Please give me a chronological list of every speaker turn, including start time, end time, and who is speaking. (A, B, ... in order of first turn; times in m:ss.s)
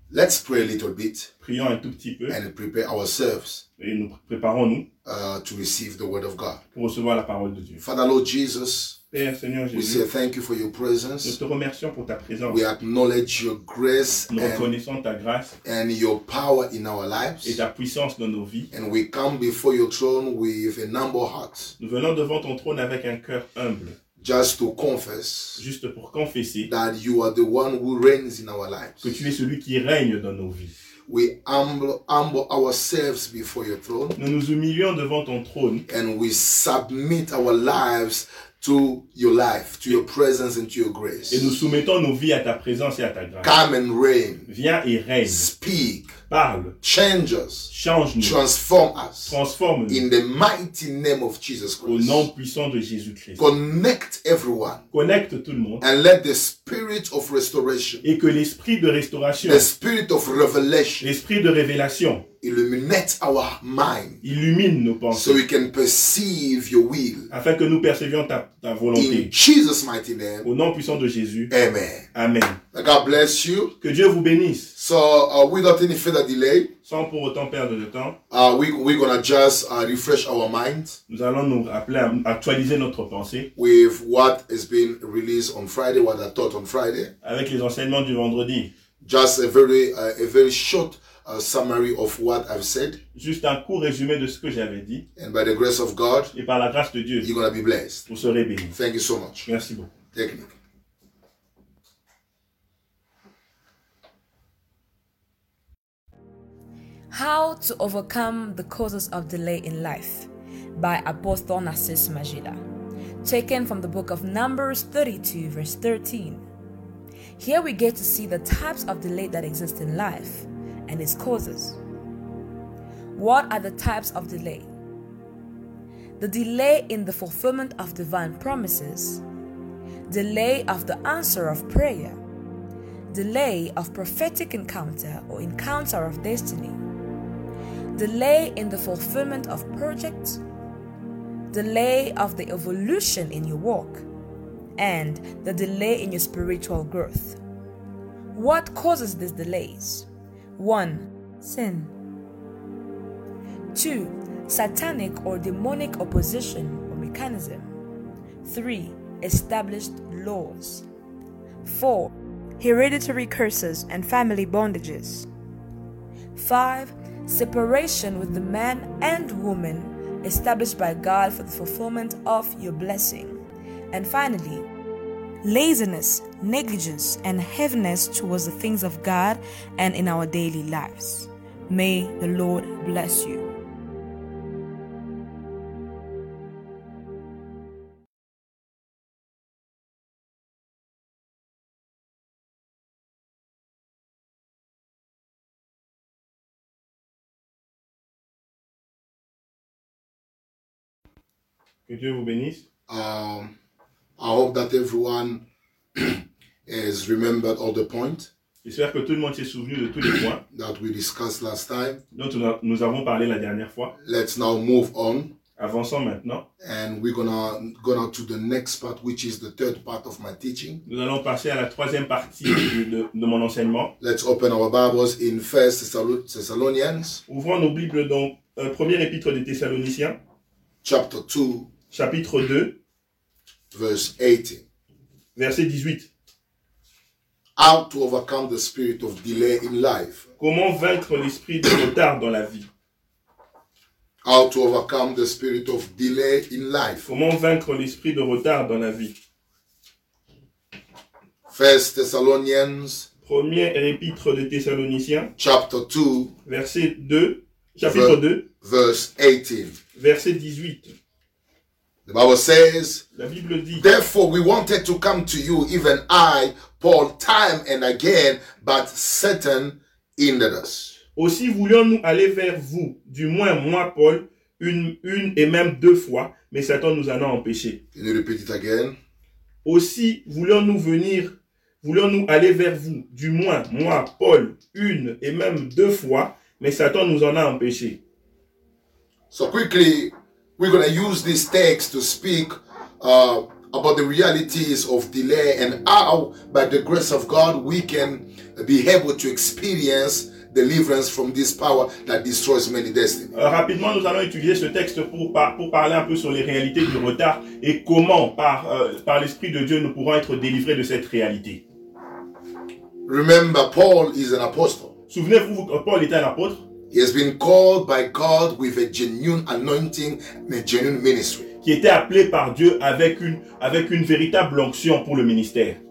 0:00.1-0:01.3 A
0:01.4-0:02.4 B
0:02.3-0:03.6 A
0:03.8-0:04.8 B
0:05.0-0:06.6 A
0:06.7-0:07.8 B
0:07.8-0:09.0 A
0:09.1-0:10.0 B
0:09.7-0:11.4 A
0:11.2-0:12.6 B
0:12.5-0:14.7 A
0:14.3-0:15.5 B
0:15.6-0:17.6 A
0:17.4-0:18.7 B
0:18.7-0:21.7 A
0:21.8-0:24.0 B
0:24.2-0:25.6 A
0:25.6-0:26.7 B
0:26.7-0:29.1 A
0:29.0-0:30.7 B
0:31.1-0:34.2 A
0:34.2-0:35.8 B
0:35.9-0:41.6 A
0:41.3-0:43.5 B
0:43.4-0:44.5 A
0:44.5-0:45.5 B
0:45.2-0:46.1 A
0:46.3-0:46.7 B
0:46.8-0:49.4 A
0:47.7-0:48.4 B
0:49.2-0:50.0 B
0:49.9-0:52.3 A
0:51.8-0:53.4 B
0:53.4-0:54.8 A
0:54.9-0:55.8 B
0:55.8-0:58.0 A
0:58.0-0:59.6 B
0:59.4-1:01.0 A
1:01.0-1:02.2 B
1:02.4-1:04.2 A
1:04.2-1:05.4 B
1:05.1-1:07.3 A
1:07.3-1:09.3 B
1:08.9-1:10.5 A
1:10.4-1:11.5 B
1:11.5-1:12.0 A
1:12.1-1:12.6 B
1:12.7-1:13.7 A
1:13.8-1:14.7 B
1:14.8-1:16.7 A
1:16.8-1:18.1 B
1:18.3-1:21.0 A
1:21.1-1:23.5 B
1:23.6-1:27.1 A
1:27.2-1:28.7 B
1:29.0-1:33.0 A
1:33.1-1:35.0 B
1:35.2-1:36.3 A
1:36.3-1:37.3 B
1:37.2-1:38.0 A
1:38.1-1:38.7 B
1:38.7-1:39.4 A
1:39.4-1:39.9 B
1:40.1-1:40.5 A
1:47.1-1:52.6 C
1:53.2-1:56.4 C
1:57.4-2:01.8 C
2:03.1-2:04.7 C
2:06.2-2:09.2 C
2:10.1-2:12.2 C
2:13.1-2:16.8 C
2:17.9-2:20.4 C
2:21.5-2:24.0 C
2:24.8-2:27.4 C
2:28.3-2:30.0 C
2:30.6-2:31.9 C
2:33.7-2:37.7 C
2:38.4-2:40.8 C
2:41.6-2:45.3 C
2:46.3-2:53.4 C
2:53.9-2:54.6 C
2:55.4-3:03.5 C
3:21.9-3:22.6 B
3:22.9-3:23.5 A
3:24.2-3:25.4 A
3:25.9-3:28.3 A
3:28.6-3:30.4 B
3:30.5-3:32.0 A
3:32.1-3:33.9 B
3:34.0-3:35.3 A
3:35.6-3:36.4 B
3:36.6-3:40.8 A
3:40.8-3:43.9 B
3:44.0-3:47.2 A
3:47.3-3:50.2 B
3:50.8-3:51.7 A
3:51.9-3:52.7 B
3:53.7-3:54.6 A
3:55.4-3:56.1 B
3:57.6-4:00.2 A
4:00.4-4:02.7 B
4:04.2-4:07.0 A
4:07.0-4:09.1 B
4:11.5-4:13.1 A
4:13.2-4:15.3 B
4:15.4-4:16.3 A
4:16.5-4:18.4 B
4:17.8-4:19.8 A
4:20.0-4:20.9 B
4:22.1-4:23.0 A
4:23.2-4:23.8 B
4:23.8-4:31.0 A
4:31.2-4:37.8 B
4:37.9-4:39.0 A
4:39.6-4:48.0 B
4:49.3-5:03.3 A
5:03.3-5:11.6 B
5:13.0-5:14.9 A
5:15.1-5:16.6 B
5:16.9-5:21.5 A
5:21.6-5:25.8 B